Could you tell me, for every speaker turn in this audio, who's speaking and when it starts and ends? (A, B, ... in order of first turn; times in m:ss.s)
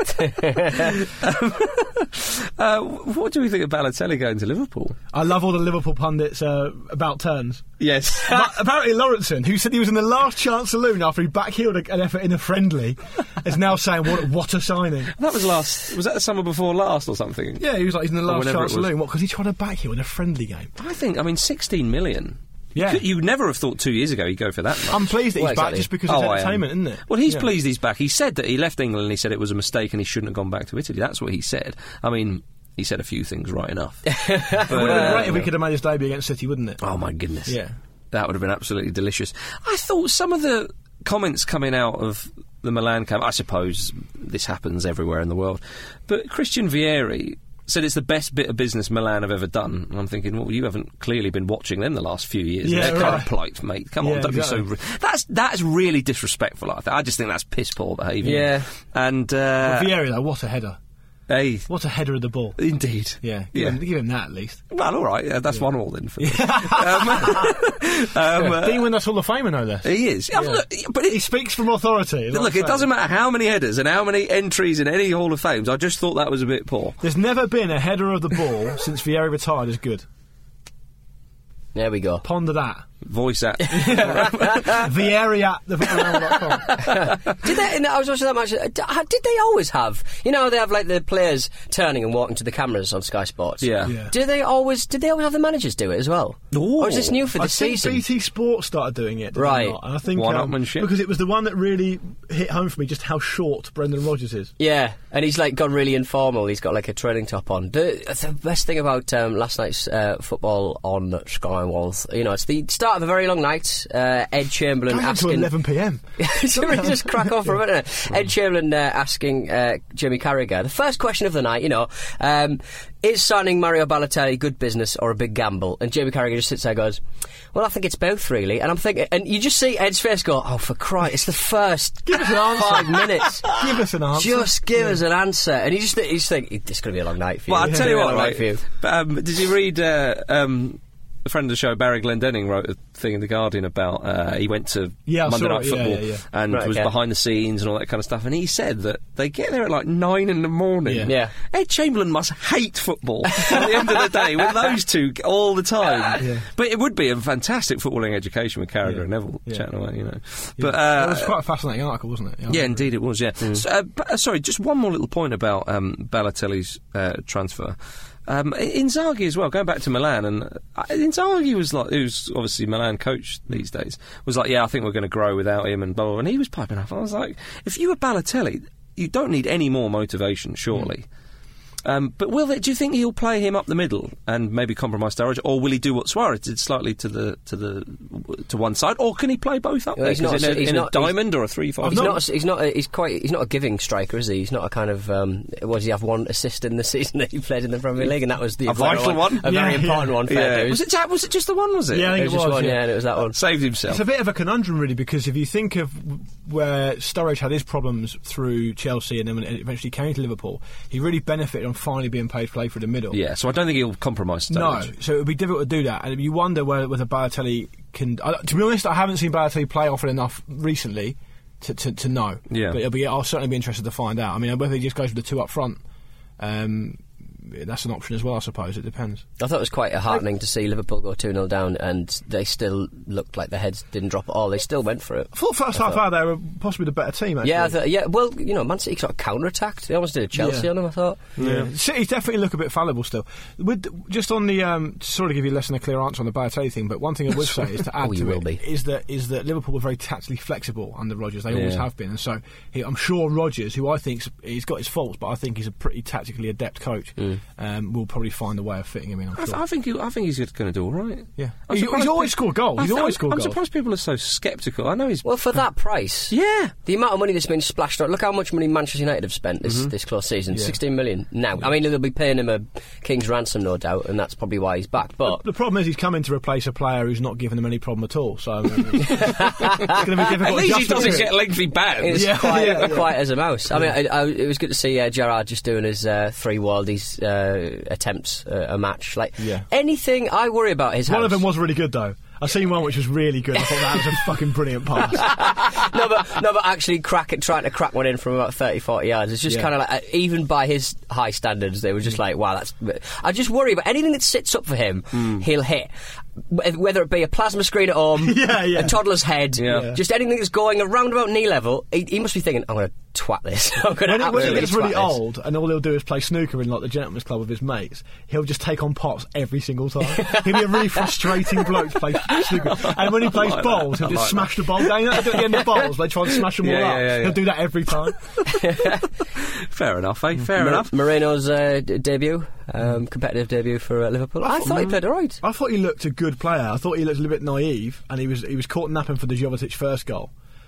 0:00.2-0:00.9 A
0:01.0-0:05.0 B
0:05.1-0:07.6 C
0:07.8-0:08.4 B
0:08.2-0:15.1 C
0:15.2-0:17.6 B
0:17.6-0:20.7 C
0:18.2-0:18.9 B
0:20.8-0:25.1 B
0:22.7-0:23.0 C
0:24.9-0:27.5 C
0:25.4-0:25.9 A
0:26.1-0:35.5 B
0:34.1-0:35.4 A
0:34.7-0:36.8 C
0:36.8-0:37.6 B
0:37.4-0:37.7 C
0:38.1-0:59.9 B
0:52.6-0:53.3 C
0:54.0-0:54.6 C
0:58.2-0:58.7 A
0:59.6-1:00.8 C
1:01.3-1:01.7 B
1:01.7-1:02.6 C
1:02.6-1:03.8 B
1:03.2-1:04.6 C
1:04.7-1:08.9 B
1:06.2-1:07.6 C
1:08.3-1:12.9 C
1:09.8-1:11.3 B
1:12.3-1:17.0 B
1:17.0-1:20.0 C
1:21.7-1:22.2 A
1:22.2-1:22.8 C
1:23.0-1:24.9 B
1:23.7-1:26.8 C
1:23.8-1:24.8 A
1:26.7-1:38.0 A
1:26.8-1:27.1 B
1:33.6-1:34.0 B
1:33.8-1:34.1 C
1:36.5-1:37.2 B
1:37.3-1:44.5 C
1:39.3-1:39.8 A
1:40.1-1:40.9 B
1:44.6-1:55.5 A
1:54.9-1:57.5 C
1:56.2-2:13.5 A
2:12.0-2:15.0 C
2:14.1-2:18.6 A
2:17.5-2:41.3 B
2:17.6-2:17.9 C
2:25.1-2:26.2 C
2:26.5-2:26.9 A
2:30.8-2:31.1 C
2:31.0-2:31.3 A
2:33.3-2:34.0 A
2:36.2-2:36.4 C
2:38.8-2:39.6 C
2:40.6-2:42.8 C
2:42.5-2:47.8 B
2:48.3-3:01.0 B
3:01.8-3:12.2 B
3:10.0-3:11.2 A
3:11.8-3:12.2 C
3:11.8-3:20.8 A
3:18.6-3:19.6 B
3:19.4-3:20.2 C
3:20.2-3:22.3 B
3:21.9-3:22.8 C
3:22.1-3:23.4 A
3:23.3-3:24.0 B
3:23.9-3:33.2 C
3:33.1-3:34.9 B
3:34.5-3:45.8 C
3:42.5-3:42.8 B
3:46.4-3:49.2 C
3:49.4-3:56.0 A
3:55.3-3:57.8 C
3:57.4-4:01.2 A
4:00.4-4:00.7 C
4:01.4-4:19.6 C
4:01.4-4:01.7 B
4:08.0-4:08.6 A
4:11.5-4:11.8 B
4:19.4-4:25.3 B
4:21.4-4:23.6 C
4:25.2-4:35.4 A
4:26.3-4:26.7 B
4:29.6-4:29.9 B
4:30.5-4:30.8 C
4:35.2-4:41.3 C
4:39.0-4:40.0 A
4:40.3-4:43.0 B
4:40.9-4:41.3 A
4:42.0-4:51.4 A
4:42.1-4:43.9 C
4:49.4-4:49.7 C
4:51.0-4:55.5 C
4:55.1-5:05.9 A
5:05.2-5:05.4 B
5:06.4-5:15.2 A
5:08.2-5:09.0 C
5:09.6-5:09.9 B
5:09.6-5:10.0 C
5:14.0-5:28.2 C
5:14.3-5:14.7 B
5:20.2-5:21.0 A
5:22.6-5:25.6 B
5:26.5-5:27.4 B
5:28.5-5:29.0 A
5:29.6-5:30.9 B
5:30.6-5:35.4 A
5:34.4-5:40.3 C